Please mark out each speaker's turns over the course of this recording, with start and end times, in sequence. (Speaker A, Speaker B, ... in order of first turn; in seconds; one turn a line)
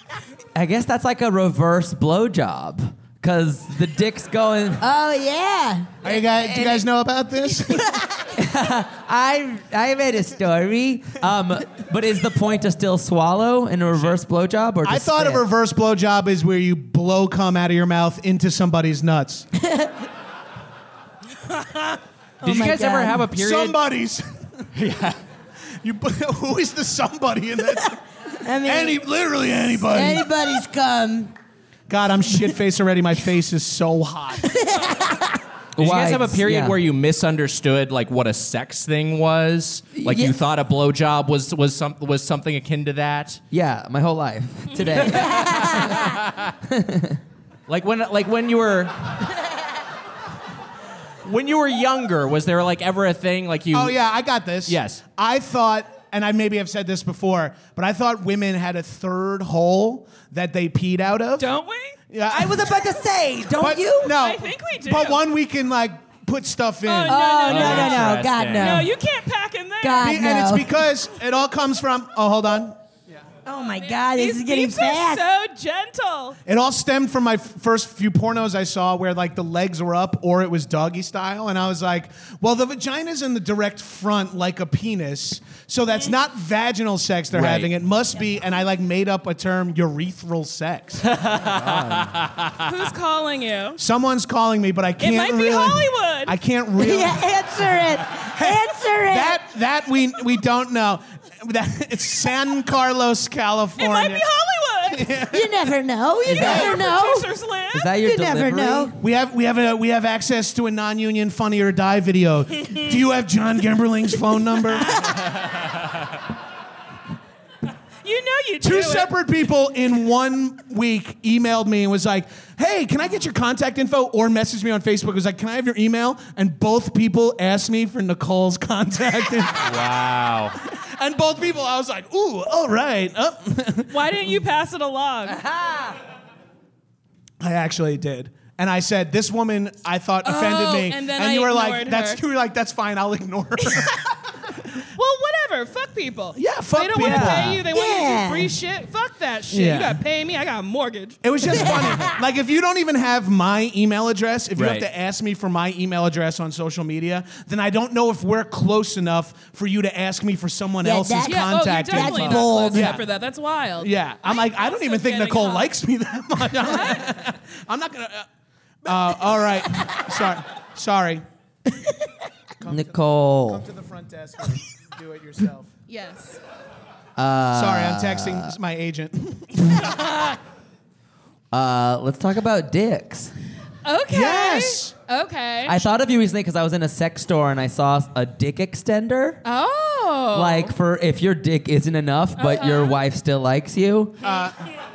Speaker A: 0.6-4.8
Speaker B: 4.8-5.9
Speaker C: 6.0-8.0
Speaker A: 6.1-6.9
Speaker B: 7.6-8.4
Speaker A: 8.3-15.4
Speaker C: 14.8-19.5
Speaker B: 19.6-19.9
Speaker B: 22.4-23.2
Speaker D: 22.4-23.8
Speaker C: 23.4-24.7
Speaker D: 24.8-25.2
Speaker C: 25.8-28.0
Speaker B: 28.4-29.0
Speaker C: 28.6-30.3
Speaker B: 29.8-31.3
Speaker C: 31.9-34.5
Speaker B: 34.4-35.4
Speaker A: 35.8-36.8
Speaker D: 35.8-43.4
Speaker A: 40.0-40.4
Speaker A: 43.5-47.2
Speaker D: 45.0-46.5
Speaker B: 45.3-46.0
Speaker D: 47.7-49.2
Speaker D: 51.2-54.0
Speaker C: 53.7-61.5
Speaker D: 54.7-55.0
Speaker E: 61.4-62.0
Speaker C: 62.1-62.7
Speaker A: 62.3-64.2
Speaker C: 63.6-67.8
Speaker E: 64.1-65.2
Speaker E: 66.8-70.2
Speaker B: 67.1-68.9
Speaker D: 67.5-68.9
Speaker B: 69.8-70.7
Speaker C: 70.0-72.8
Speaker B: 73.5-75.2
Speaker E: 73.7-76.4
Speaker C: 76.5-91.1
Speaker D: 87.3-87.7
Speaker D: 91.0-92.6
Speaker A: 91.4-92.2
Speaker E: 92.6-93.8
Speaker C: 93.8-97.2
Speaker E: 95.0-96.4
Speaker B: 96.8-99.4
Speaker C: 98.2-104.3
Speaker E: 103.8-105.2
Speaker C: 104.9-105.5
Speaker B: 105.3-107.3
Speaker A: 106.3-106.8
Speaker E: 106.3-107.9
Speaker C: 106.4-106.8
Speaker A: 107.7-109.0
Speaker B: 108.0-109.0
Speaker C: 109.0-115.0
Speaker E: 118.0-119.1
Speaker C: 118.6-129.9
Speaker D: 129.6-130.6
Speaker C: 130.6-134.3
Speaker E: 133.9-135.4
Speaker A: 135.5-135.9
Speaker C: 137.4-144.1
Speaker E: 140.2-142.2
Speaker E: 143.7-143.9
Speaker E: 144.9-151.8
Speaker C: 146.3-147.6
Speaker A: 147.0-147.6
Speaker B: 147.7-148.5
Speaker C: 149.5-150.0
Speaker C: 151.2-163.0
Speaker B: 151.6-152.2
Speaker D: 154.6-154.9
Speaker B: 160.8-163.0
Speaker E: 161.2-165.7
Speaker C: 163.8-168.3
Speaker E: 166.6-167.1
Speaker C: 168.8-171.2
Speaker C: 172.6-175.7
Speaker A: 172.7-173.6
Speaker E: 175.9-176.4
Speaker A: 177.2-178.5
Speaker C: 177.5-180.1
Speaker A: 181.5-183.3
Speaker E: 183.8-185.8
Speaker C: 184.1-184.9
Speaker A: 185.7-189.4
Speaker E: 189.4-190.7
Speaker A: 190.3-194.2
Speaker E: 192.4-193.0
Speaker C: 194.2-194.6